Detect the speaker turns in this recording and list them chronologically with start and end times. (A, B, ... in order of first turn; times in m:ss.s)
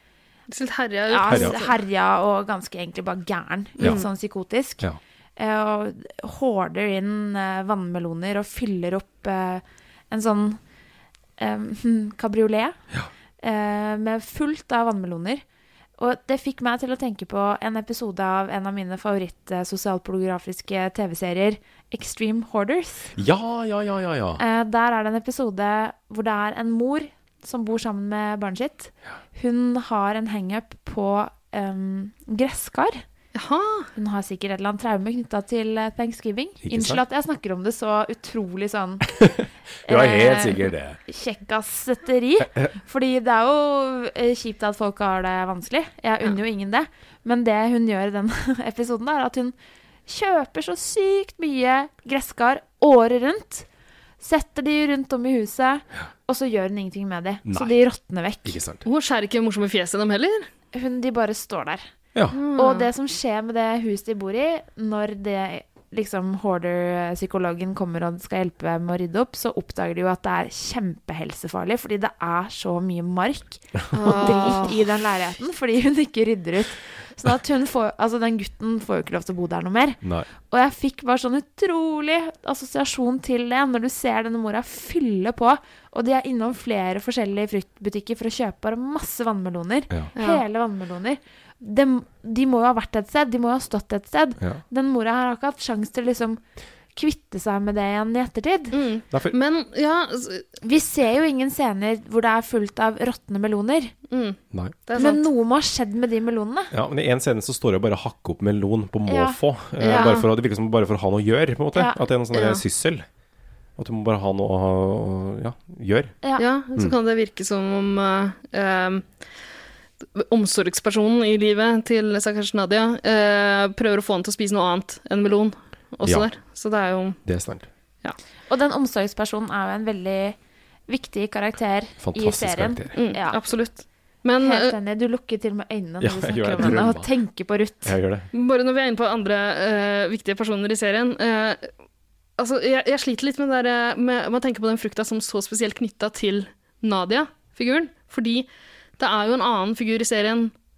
0:00.5-0:01.8 A
0:01.1-0:04.8 B
0:01.3-0:01.6 C
0:03.8-0:04.1 A
0:03.8-0:04.0 C
0:05.4-0:10.6 B
0:11.4-0:12.8 B
0:13.4-0:15.4 B
0:16.0-0:23.1 B
0:23.2-0:24.4 C
0:24.4-0:33.0 B
0:33.3-0:33.9 A
0:33.9-0:39.2 B
0:36.6-0:37.0 C
0:39.2-0:41.0 C
0:39.9-0:49.5 B
0:42.4-0:42.7 C
0:50.1-0:53.6 B
0:54.2-0:58.6 B
0:57.4-0:57.8 C
0:58.4-0:58.8 C
0:58.8-1:00.5 A
1:00.7-1:01.8 B
1:02.3-1:02.9 A
1:02.4-1:36.4 B
1:13.9-1:14.8 A
1:20.0-1:20.3 C
1:30.2-1:30.4 A
1:36.9-1:38.8 B
1:38.7-1:40.5 A
1:39.1-1:39.4 C
1:40.6-1:43.9 B
1:44.1-1:45.3 A
1:44.5-1:44.8 C
1:44.9-1:46.7 B
1:46.7-1:53.0 C
1:49.1-1:50.2 B
1:49.8-1:50.3 A
1:51.7-1:52.0 B
1:52.3-1:52.6 A
1:53.8-1:56.2 C
1:56.4-1:59.1 A
2:00.1-2:07.2 A
2:07.2-2:07.7 C
2:08.5-2:10.4 B
2:10.9-2:13.4 B
2:12.0-2:13.0 C
2:12.9-2:14.8 A
2:14.4-2:18.0 B
2:16.0-2:17.1 C
2:17.8-2:18.3 C
2:18.3-2:21.7 A
2:22.4-2:28.5 A
2:29.0-2:30.5 A